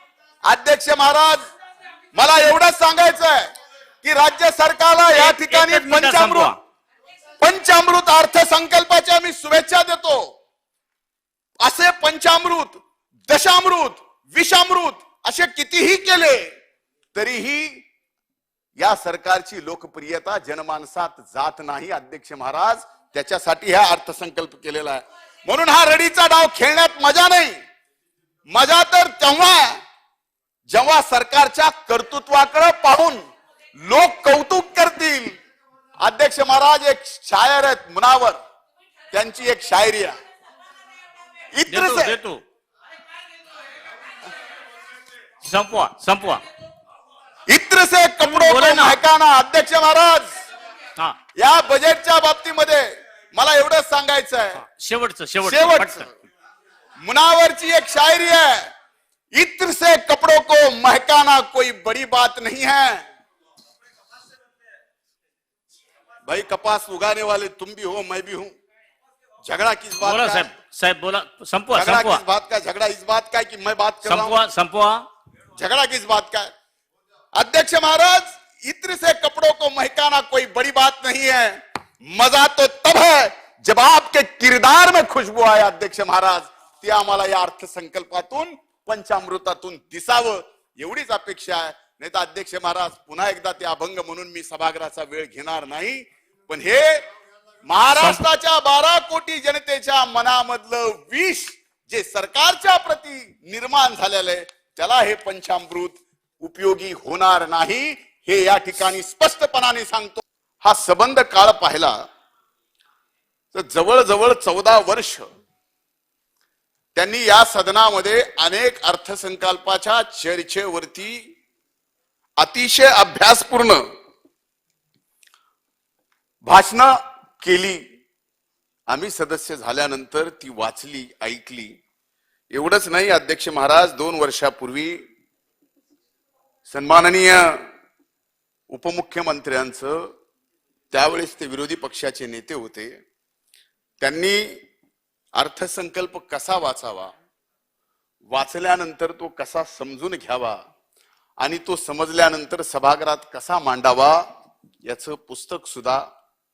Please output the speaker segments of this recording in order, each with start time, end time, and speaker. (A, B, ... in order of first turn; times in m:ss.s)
0:00.4-0:01.4 A
0:02.1-0:03.5 A
0:04.0-0:06.5 A
0:05.1-0:06.6 B
0:07.4-0:10.3 A
0:11.6-0:16.5 A
0:17.1-0:17.8 A
0:18.8-0:27.6 A
0:28.5-0:29.8 A
0:30.7-0:33.2 A
0:33.8-0:35.4 A
0:36.0-0:38.4 A
0:39.1-0:40.2 A
0:41.5-0:42.1 A
0:41.7-0:42.4 B
0:45.4-0:46.4 B
0:47.5-0:50.4 A
0:48.2-0:49.0 B
0:51.4-0:54.6 A
0:54.6-0:56.1 B
0:55.4-0:56.1 A
0:57.0-0:58.7 A
0:59.4-1:03.0 A
1:06.2-1:08.5 A
1:09.4-1:10.5 A
1:10.0-1:12.2 B
1:11.7-1:14.4 A
1:14.0-1:15.0 B
1:15.6-1:16.5 A
1:17.4-1:37.0 A
1:37.6-1:52.0 A
1:38.0-1:38.2 B
1:53.5-1:55.2 A
1:56.9-2:01.2 A
2:02.4-2:03.8 A
2:06.4-2:07.8 A
2:08.9-2:11.7 A
2:12.5-2:15.0 A
2:16.7-2:17.6 A
2:18.7-2:20.0 A
2:20.9-2:22.9 A
2:24.0-2:24.4 A
2:25.4-2:27.1 A
2:28.3-2:30.6 A
2:31.4-2:34.2 A
2:34.8-2:36.0 A